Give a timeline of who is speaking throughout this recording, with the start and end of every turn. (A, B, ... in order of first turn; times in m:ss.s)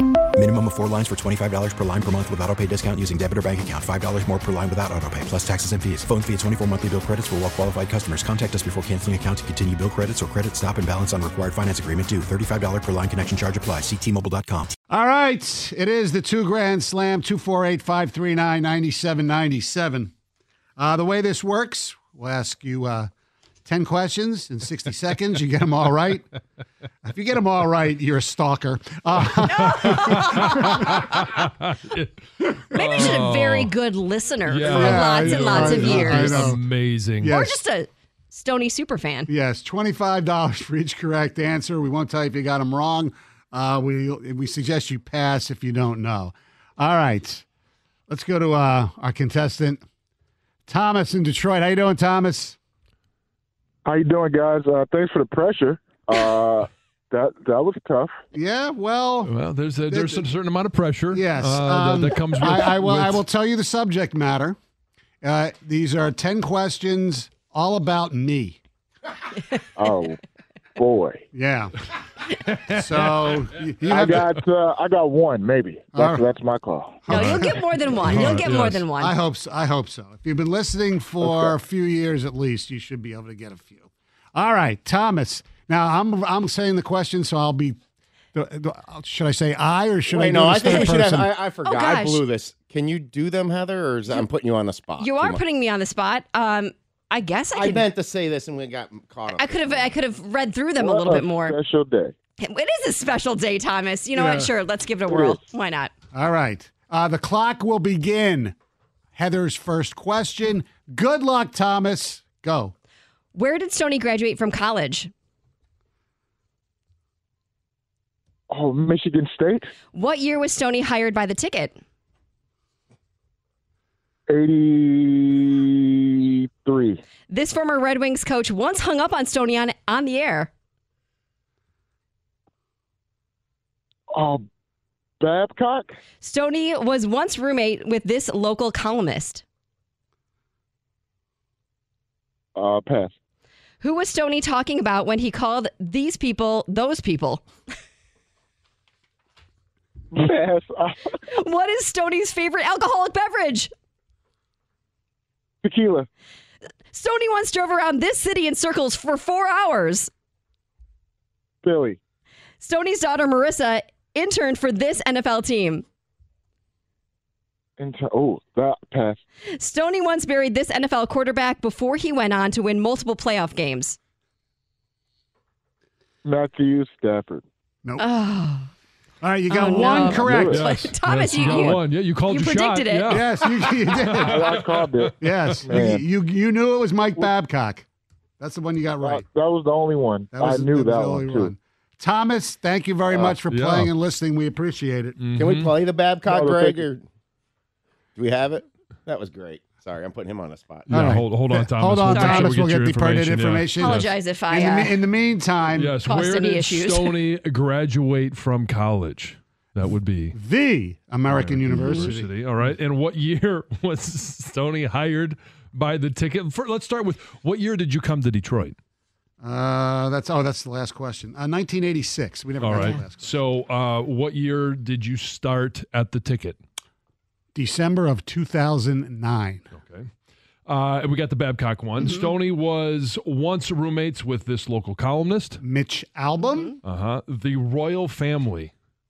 0:00.4-0:14.8 A
0:14.9-0:20.1 B
0:20.8-0:23.1 B
0:23.7-0:26.3 B
0:27.0-0:31.2 B
0:29.5-0:31.0 C
0:29.6-0:33.7 D
0:32.7-0:36.5 C
0:32.8-0:33.2 B
0:34.4-0:37.4 D
0:34.7-0:37.6 B
0:37.2-0:39.3 C
0:39.3-0:47.4 B
0:48.1-0:49.8 B
0:50.7-0:52.6 B
0:53.8-0:58.2 E
0:58.3-1:00.3 B
0:59.2-1:03.2 D
1:01.1-1:04.6 B
1:05.2-1:08.6 B
1:09.8-1:10.2 E
1:10.8-1:11.2 E
1:11.3-1:11.8 B
1:12.5-1:13.3 D
1:12.6-1:14.4 B
1:13.9-1:17.1 E
1:15.9-1:16.3 B
1:17.1-1:18.4 B
1:17.1-1:19.2 C
1:17.2-1:17.4 D
1:18.0-1:18.8 D
1:19.0-1:27.8 B
1:28.3-1:31.3 B
1:30.1-1:35.4 F
1:31.6-1:32.2 C
1:35.0-1:37.9 C
1:37.5-1:40.0 F
1:39.3-1:41.6 C
1:40.8-1:42.2 E
1:42.4-1:45.9 C
1:44.1-1:44.6 B
1:45.1-1:45.4 E
1:46.1-1:48.6 B
1:49.2-1:52.7 B
1:53.3-1:55.1 C
1:58.5-1:59.7 E
1:59.9-2:01.8 C
2:04.3-2:07.0 E
2:07.3-2:10.5 C
2:14.1-2:14.5 E
2:15.2-2:16.0 E
2:16.2-2:19.4 C
2:22.6-2:23.1 E
2:23.8-2:27.4 C
2:30.1-2:31.2 E
2:31.3-2:33.7 C
2:35.6-2:36.1 E
2:36.9-2:40.1 C
2:41.6-2:42.0 E
2:42.6-2:45.8 C
2:47.8-2:49.2 E
2:49.6-2:54.0 C
2:56.2-2:57.4 E
2:58.0-2:58.7 C
2:59.2-3:00.7 B
2:59.5-3:03.8 C
3:00.1-3:05.6 D
3:00.2-3:00.6 E
3:03.1-3:07.9 B
3:04.2-3:05.1 E
3:05.6-3:06.0 E
3:08.4-3:09.3 B
3:09.0-3:11.5 E
3:10.3-3:15.3 B
3:13.1-3:13.4 F
3:13.5-3:14.0 D
3:15.2-3:15.8 D
3:15.4-3:17.0 F
3:16.3-3:16.8 E
3:18.2-3:20.9 F
3:20.9-3:24.1 D
3:20.9-3:26.0 B
3:22.1-3:22.5 C
3:23.8-3:25.0 C
3:25.7-3:30.4 D
3:26.0-3:27.2 C
3:30.3-3:32.3 B
3:31.3-3:38.8 D
3:39.4-3:43.4 B
3:42.6-3:46.6 D
3:47.6-3:49.6 B
3:49.7-3:50.1 D
3:50.7-3:55.6 D
3:55.6-3:56.8 B
3:56.8-3:58.7 D